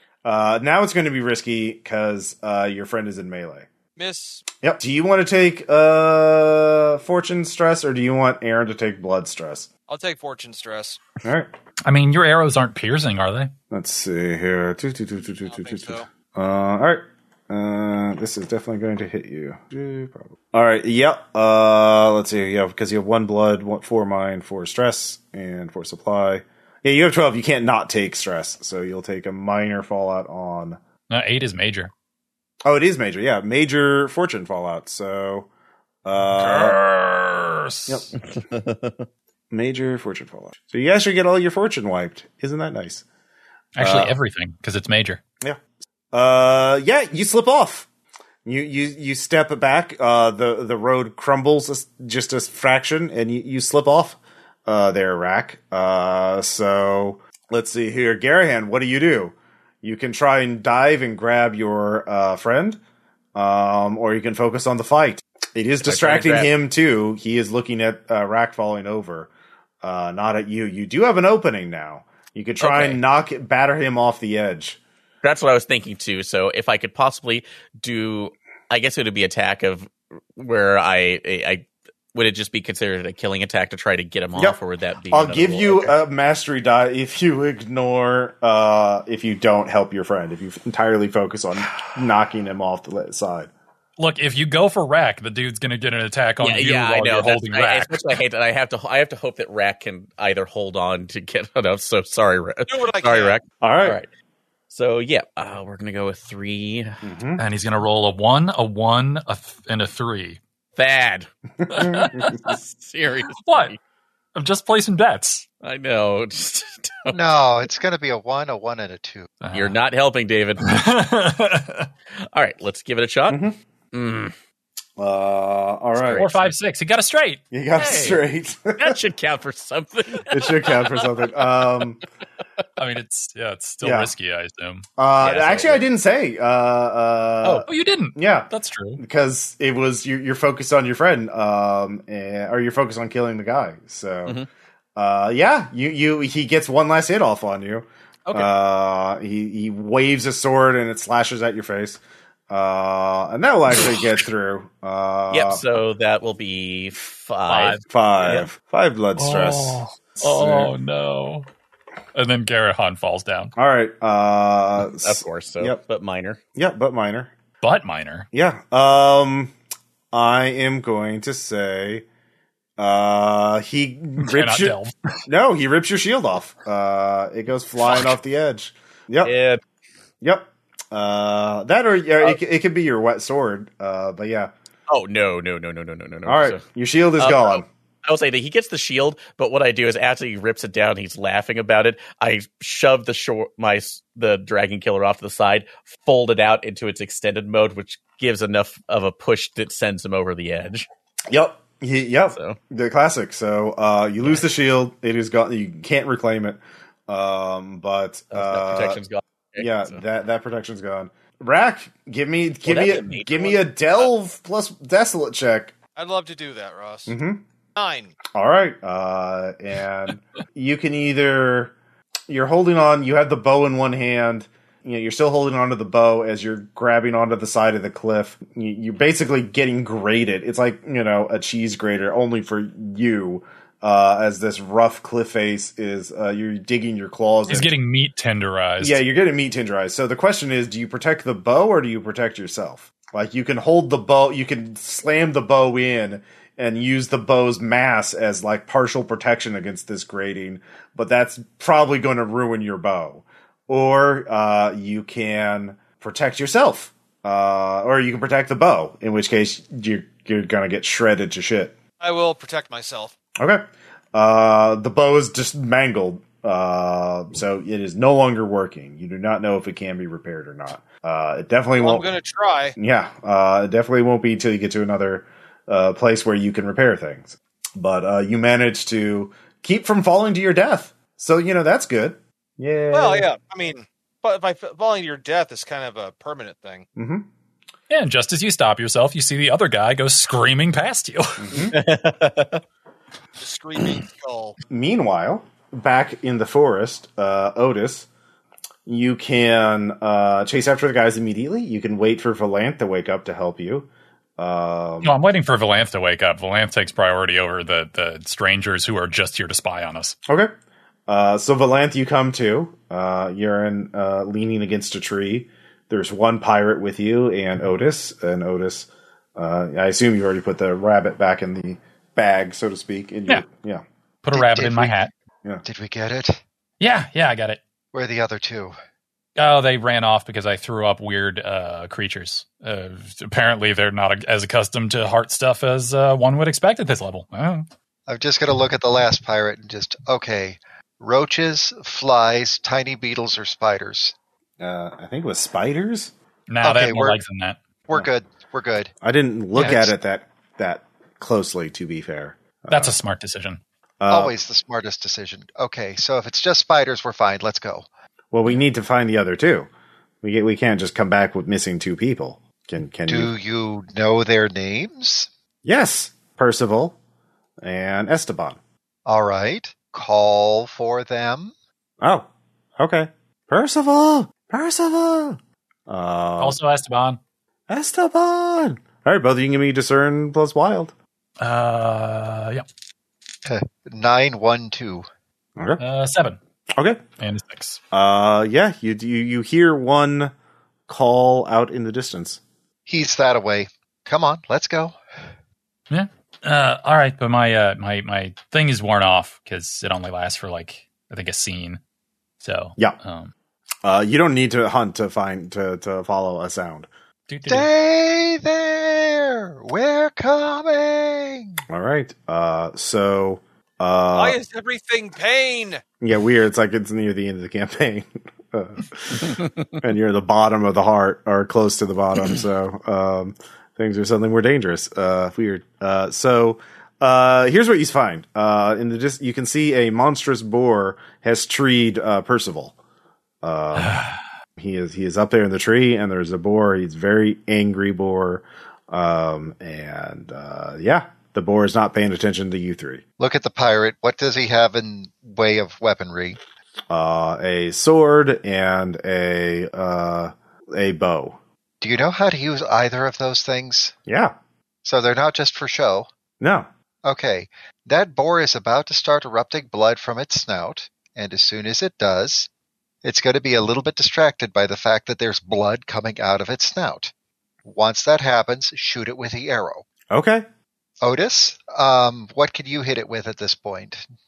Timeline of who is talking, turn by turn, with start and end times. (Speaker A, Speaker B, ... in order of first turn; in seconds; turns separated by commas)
Speaker A: 0.2-3.7, Speaker B: 4.0-4.5, Speaker A: 4.6-9.7, Speaker B: 9.9-11.0, Speaker A: 11.2-11.5, Speaker C: 11.9-13.5, Speaker A: 13.7-30.8, Speaker B: 15.4-16.1, Speaker C: 31.1-31.9, Speaker A: 32.6-35.5, Speaker A: 36.0-36.8, Speaker C: 36.4-38.1, Speaker A: 37.9-38.1, Speaker D: 38.2-39.1, Speaker A: 39.5-43.0, Speaker C: 43.8-45.2, Speaker A: 43.8-44.2, Speaker A: 46.1-47.9, Speaker A: 48.5-62.8, Speaker A: 63.4-69.3, Speaker D: 65.8-66.5, Speaker A: 69.8-74.8, Speaker D: 72.6-73.0, Speaker D: 75.2-85.9, Speaker A: 85.1-93.5, Speaker C: 94.0-98.2, Speaker D: 96.4-104.1, Speaker B: 102.7-103.4, Speaker A: 103.6-104.0, Speaker D: 104.7-107.0, Speaker A: 107.0-107.4, Speaker C: 107.4-110.4, Speaker D: 110.8-113.8, Speaker A: 111.6-112.4, Speaker C: 111.7-112.4, Speaker C: 113.4-113.7, Speaker C: 114.3-115.5, Speaker D: 115.6-117.2, Speaker E: 117.1-119.3, Speaker C: 119.4-119.8, Speaker D: 119.5-120.7, Speaker C: 120.6-121.9, Speaker D: 122.2-124.3, Speaker A: 123.3-123.6, Speaker A: 125.0-126.3, Speaker D: 126.0-126.5, Speaker C: 126.2-128.2, Speaker A: 127.5-129.0, Speaker D: 128.8-131.3, Speaker A: 130.3-132.0, Speaker C: 132.8-134.9, Speaker A: 133.8-134.1, Speaker A: 135.0-144.4, Speaker D: 135.2-135.8, Speaker C: 137.7-139.0, Speaker A: 145.0-155.7, Speaker D: 155.3-158.5, Speaker C: 157.5-157.8, Speaker A: 157.9-160.7, Speaker C: 159.2-161.5, Speaker C: 162.2-163.5, Speaker A: 163.6-165.8, Speaker D: 164.9-166.4, Speaker A: 166.6-167.3, Speaker C: 167.6-168.3, Speaker A: 168.3-169.5, Speaker A: 170.1-172.1, Speaker A: 172.8-179.3, Speaker C: 174.2-175.1, Speaker D: 179.2-179.6, Speaker A: 180.2-184.5, Speaker D: 184.9-186.6, Speaker A: 186.2-187.7, Speaker D: 187.2-200.9, Speaker A: 201.3-209.0, Speaker D: 202.3-202.6, Speaker D: 208.3-210.0, Speaker A: 209.6-215.7, Speaker D: 212.7-213.7, Speaker B: 216.0-217.2, Speaker A: 217.1-217.4, Speaker B: 217.8-218.2, Speaker A: 218.3-221.8, Speaker A: 222.3-237.7, Speaker C: 237.5-239.0, Speaker A: 238.8-261.8, Speaker B: 262.0-263.1, Speaker A: 264.1-272.1, Speaker B: 271.8-272.8, Speaker A: 272.8-283.3, Speaker B: 282.9-286.9, Speaker A: 287.0-287.3, Speaker C: 287.9-291.7, Speaker A: 291.4-291.8, Speaker D: 291.7-292.6, Speaker B: 293.4-294.6, Speaker A: 294.7-298.1, Speaker A: 298.9-305.2, Speaker C: 305.0-310.2, Speaker A: 310.3-310.5, Speaker A: 311.1-323.8, Speaker C: 324.2-325.1, Speaker E: 324.3-325.0, Speaker E: 325.6-326.4, Speaker C: 326.8-327.6, Speaker E: 327.9-328.8, Speaker C: 329.4-337.7, Speaker E: 338.1-344.1, Speaker A: 344.6-346.1, Speaker C: 346.5-347.6, Speaker E: 346.6-347.2, Speaker E: 347.9-348.9, Speaker A: 349.0-353.0, Speaker C: 349.6-349.9, Speaker C: 352.7-353.6, Speaker A: 354.0-354.4, Speaker E: 354.1-357.9, Speaker A: 358.3-359.7, Speaker A: 360.2-363.3, Speaker E: 363.1-365.3, Speaker A: 365.6-367.0, Speaker A: 367.6-368.6, Speaker E: 369.1-371.5, Speaker A: 372.0-376.6, Speaker C: 376.4-377.2, Speaker A: 377.7-380.9, Speaker C: 381.4-382.6, Speaker E: 383.4-385.1, Speaker A: 385.6-385.8, Speaker C: 385.8-386.4, Speaker A: 386.8-387.0, Speaker C: 387.2-387.8, Speaker A: 387.9-390.3, Speaker A: 390.9-392.4, Speaker E: 392.9-395.0, Speaker C: 395.9-401.8, Speaker C: 402.4-403.3, Speaker A: 403.8-406.9, Speaker C: 407.3-407.7, Speaker E: 407.5-411.6, Speaker A: 411.7-414.4, Speaker B: 414.1-415.8, Speaker A: 416.0-432.8, Speaker A: 433.4-434.0, Speaker C: 433.8-434.2, Speaker A: 434.6-443.0, Speaker E: 443.2-446.4, Speaker A: 446.9-451.4, Speaker E: 451.8-453.9, Speaker A: 454.1-454.4, Speaker E: 454.8-456.1, Speaker A: 456.4-456.7, Speaker E: 457.1-462.5, Speaker E: 463.0-467.1, Speaker E: 467.6-469.9, Speaker A: 470.1-470.5, Speaker E: 471.0-474.0